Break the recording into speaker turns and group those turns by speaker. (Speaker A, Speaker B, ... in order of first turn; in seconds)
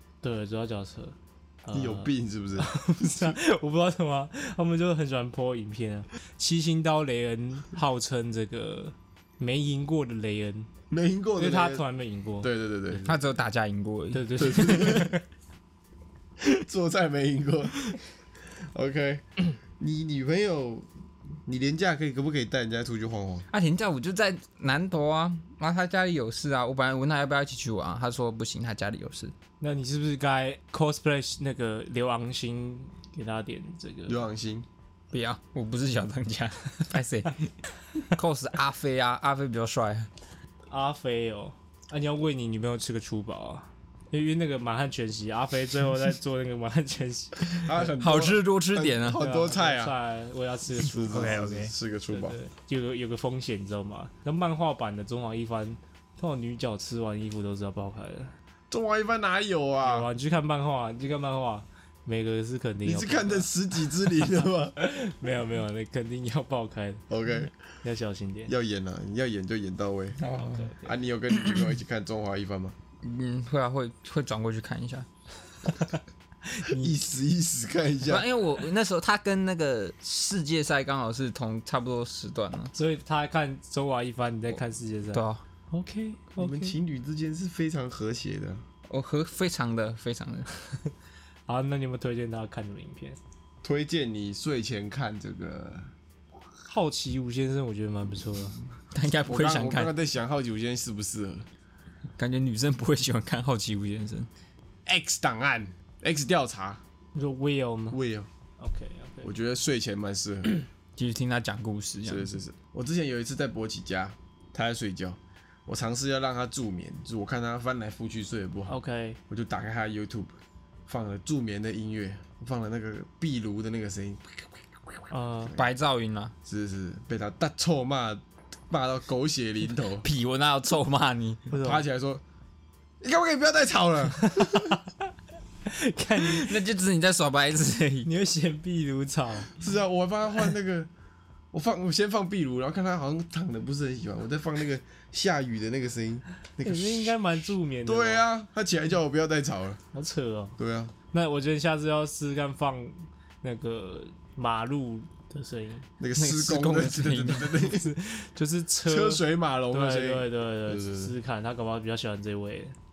Speaker A: 0.2-10.7, 11.4-13.2, 14.1-15.2, 29.6-34.2, 40.7-47.7, 49.1-58.3, 59.8-63.5, 64.1-67.0, 67.8-68.5, 70.3-70.9, 76.5-76.9, 82.7-86.8, 91.5-93.2, 96.7-98.6, 107.1-108.0, 108.6-109.3, 118.7-119.2, 125.1-125.5, 131.5-131.8, 134.2-134.8, 135.6-136.6, 138.0-139.5, 146.6-148.2, 149.9-150.6, 151.1-155.9, 157.6-162.7
Speaker B: 1.7-3.4, 10.9-11.8, 12.4-13.1, 14.4-15.1, 16.4-18.0, 18.7-20.9, 21.4-23.5, 34.1-34.6, 47.5-49.9, 50.8-52.4, 58.7-60.1, 62.8-64.8, 67.1-67.5, 68.5-70.2, 70.8-72.7, 76.7-78.2, 86.4-88.6, 93.6-95.9, 99.3-101.5, 104.8-106.8, 107.9-108.3, 109.2-110.5, 112.0-118.7, 119.3-120.3, 120.9-125.0, 126.5-130.1, 131.5-132.2, 133.0-134.8, 139.5-140.9, 141.5-147.1, 147.8-149.8, 150.6-150.9, 156.0-157.9, 158.8-161.1
Speaker C: 13.0-15.0, 23.5-29.3, 35.1-40.1, 47.6-49.2, 51.1-51.7, 70.2-70.7, 71.3-71.7, 73.0-75.1, 78.0-82.7, 85.1-85.4, 88.9-90.5, 98.9-99.9, 102.2-104.3, 111.0-112.3, 125.5-126.3, 130.0-131.4, 136.2-138.1, 156.2-157.6